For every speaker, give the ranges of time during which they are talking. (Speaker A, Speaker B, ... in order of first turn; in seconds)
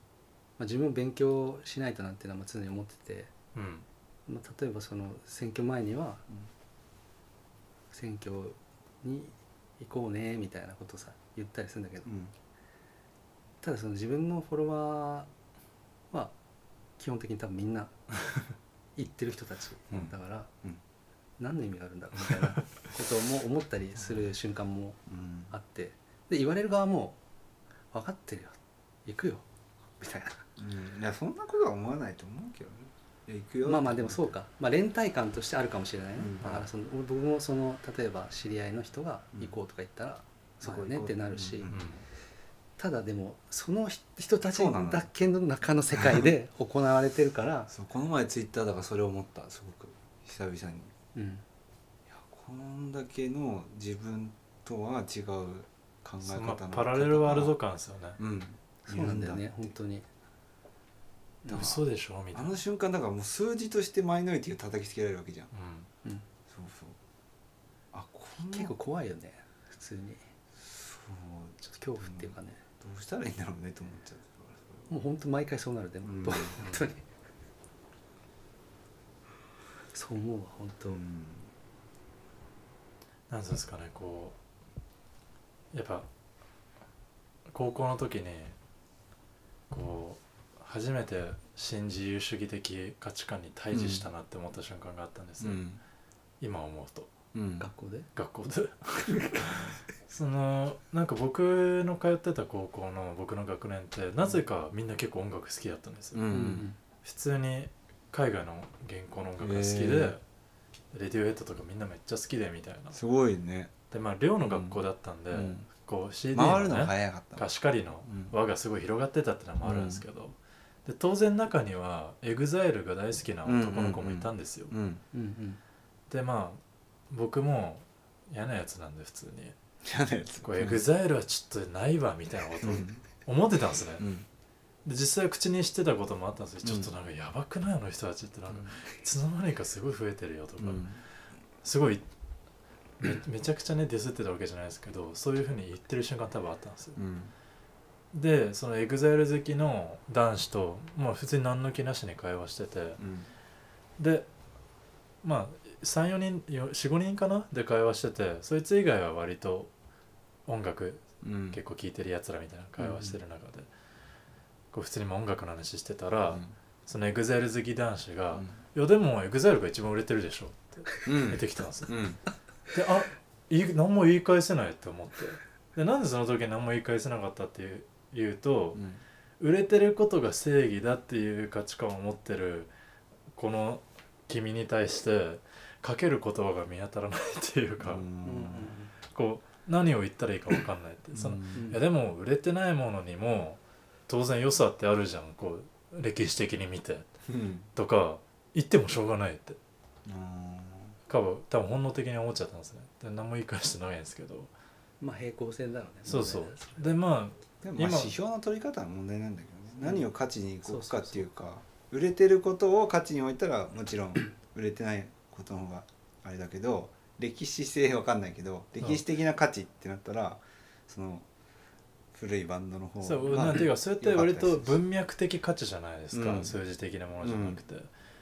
Speaker A: 0.6-3.3, 4.3-6.2, 7.9-12.1, 13.6-15.3, 17.0-18.0, 18.9-20.5, 21.4-27.2, 27.9-29.4, 30.0-30.5, 33.6-41.7, 42.8-47.7, 51.1-51.4, 58.9-60.1, 61.4-61.7, 68.5-70.3, 71.6-72.6, 74.9-77.0, 79.9-81.0, 97.6-98.1, 99.0-99.5, 106.3-106.8, 125.1-125.6, 188.2-188.9, 191.5-191.8, 205.0-206.9, 210.7-211.3
Speaker B: 3.5-3.9, 41.7-42.0, 56.2-58.2, 61.5-62.5, 65.5-65.9, 83.3-84.4, 85.7-86.1, 87.5-88.6, 89.7-95.6, 96.4-97.1, 98.2-106.3, 107.0-110.2, 110.9-113.0, 113.9-124.7, 126.1-129.5, 130.4-134.1, 134.8-140.9, 141.6-142.0, 143.0-147.0, 148.1-153.0, 154.0-154.3, 155.2-159.7, 160.4-163.7, 164.7-172.0, 172.7-178.8, 179.4-182.7, 183.3-188.1, 189.1-197.1, 197.8-199.6, 201.1-204.5, 206.1-208.1, 223.0-227.9
Speaker C: 12.1-12.3, 19.9-20.8, 25.1-25.5, 30.6-34.3, 36.2-36.6, 40.6-42.0, 44.5-45.1, 46.0-46.3, 47.7-50.9, 52.1-57.5, 58.2-59.7, 61.5-65.5, 66.5-67.0, 67.9-68.7, 70.6-74.9, 76.0-76.6, 80.9-81.5, 93.7-94.0, 95.4-95.8, 97.3-97.7, 106.1-106.7, 109.4-110.2, 112.9-113.7, 114.4-115.7, 116.3-117.5, 118.0-118.3, 119.6-120.0, 123.4-125.0, 129.8-130.8, 132.6-133.0, 134.0-134.3, 136.6-136.9, 138.5-138.8, 140.6-141.0, 146.9-147.3, 153.0-153.3, 161.2-161.6, 171.0-172.2, 178.7-179.0, 187.8-188.8, 191.1-191.6, 197.3-197.7, 200.1-201.0, 207.6-221.3, 222.1-224.8, 226.1-226.5, 227.2-227.6